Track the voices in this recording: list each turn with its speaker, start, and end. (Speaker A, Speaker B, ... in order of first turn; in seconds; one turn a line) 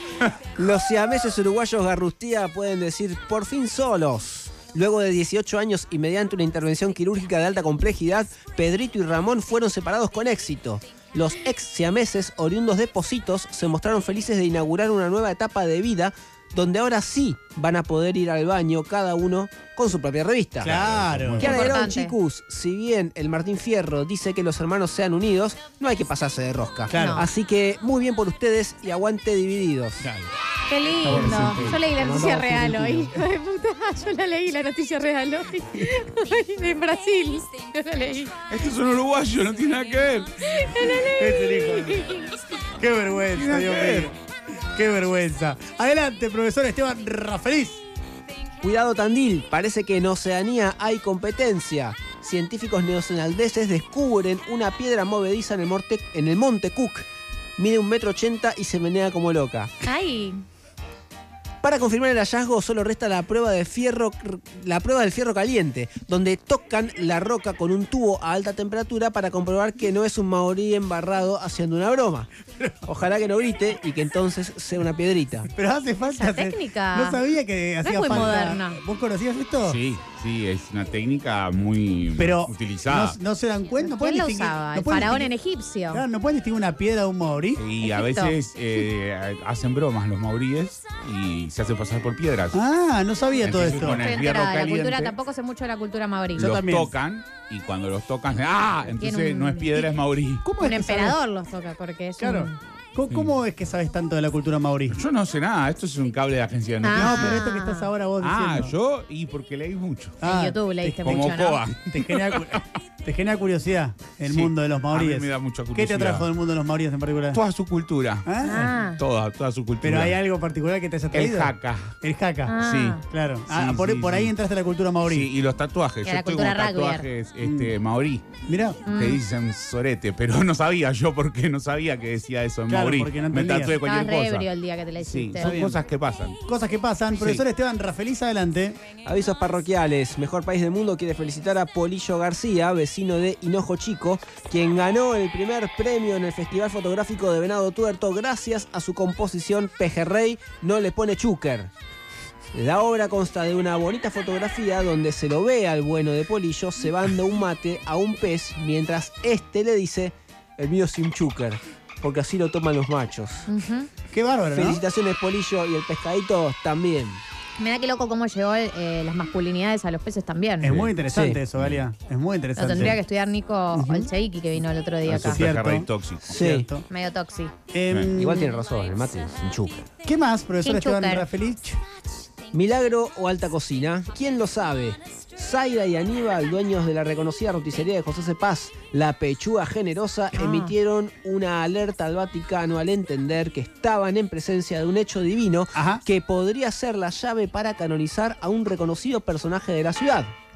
Speaker A: 0.5-20.7
Speaker B: 20.6-21.5
Speaker C: 20.6-21.7
Speaker A: 21.4-30.1
Speaker D: 21.4-22.1
Speaker B: 26.9-27.2
Speaker D: 26.9-27.3
Speaker C: 30.0-30.3
Speaker D: 30.7-38.3
Speaker C: 31.0-32.0
Speaker A: 31.9-33.1
Speaker C: 38.5-41.1
Speaker D: 40.4-42.4
Speaker B: 41.0-47.8
Speaker C: 43.2-44.1
Speaker A: 48.6-59.8
Speaker D: 59.8-60.4
Speaker A: 61.6-72.3
Speaker B: 72.6-72.8
Speaker A: 72.8-75.5
Speaker B: 75.5-79.8
Speaker D: 76.1-77.2
Speaker D: 77.8-78.8
Speaker C: 79.6-83.2
Speaker B: 82.2-85.3
Speaker D: 83.8-86.0
Speaker B: 85.9-87.6
Speaker C: 87.5-92.6
Speaker D: 87.8-88.4
Speaker B: 92.5-94.0
Speaker C: 93.4-95.1
Speaker D: 93.7-96.5
Speaker B: 96.3-96.9
Speaker C: 96.3-100.5
Speaker D: 99.0-100.0
Speaker B: 100.4-101.2
Speaker D: 100.6-102.6
Speaker B: 102.2-105.0
Speaker C: 103.1-103.4
Speaker C: 104.9-107.4
Speaker D: 106.8-107.9
Speaker B: 106.9-108.8
Speaker C: 108.2-110.2
Speaker B: 110.2-117.4
Speaker D: 110.2-111.6
Speaker C: 111.0-112.6
Speaker C: 114.2-116.3
Speaker C: 117.3-120.2
Speaker B: 118.2-118.7
Speaker D: 118.4-119.0
Speaker B: 119.8-125.3
Speaker C: 121.1-122.0
Speaker D: 122.5-123.0
Speaker C: 122.6-124.3
Speaker C: 125.1-128.2
Speaker D: 126.0-127.1
Speaker B: 127.4-127.7
Speaker B: 128.4-128.8
Speaker D: 128.8-129.2
Speaker C: 128.9-134.5
Speaker B: 132.7-133.8
Speaker D: 133.8-135.7
Speaker C: 135.0-136.4
Speaker B: 135.4-135.8
Speaker B: 136.4-138.8
Speaker C: 137.2-137.4
Speaker A: 139.0-151.7
Speaker A: 152.5-163.5
Speaker D: 163.5-163.9
Speaker B: 164.1-164.8
Speaker A: 164.5-167.2
Speaker D: 167.6-170.7
Speaker B: 170.6-173.0
Speaker C: 170.7-171.0
Speaker A: 171.1-171.4
Speaker C: 171.5-171.9
Speaker D: 172.6-175.4
Speaker B: 173.7-174.1
Speaker C: 175.1-176.4
Speaker B: 175.1-176.8
Speaker A: 176.2-176.7
Speaker D: 176.9-177.5
Speaker B: 177.7-178.5
Speaker C: 177.9-178.2
Speaker A: 178.1-179.9
Speaker B: 180.0-181.8
Speaker D: 180.6-181.3
Speaker A: 182.5-200.3
Speaker D: 190.3-190.7
Speaker B: 195.7-196.0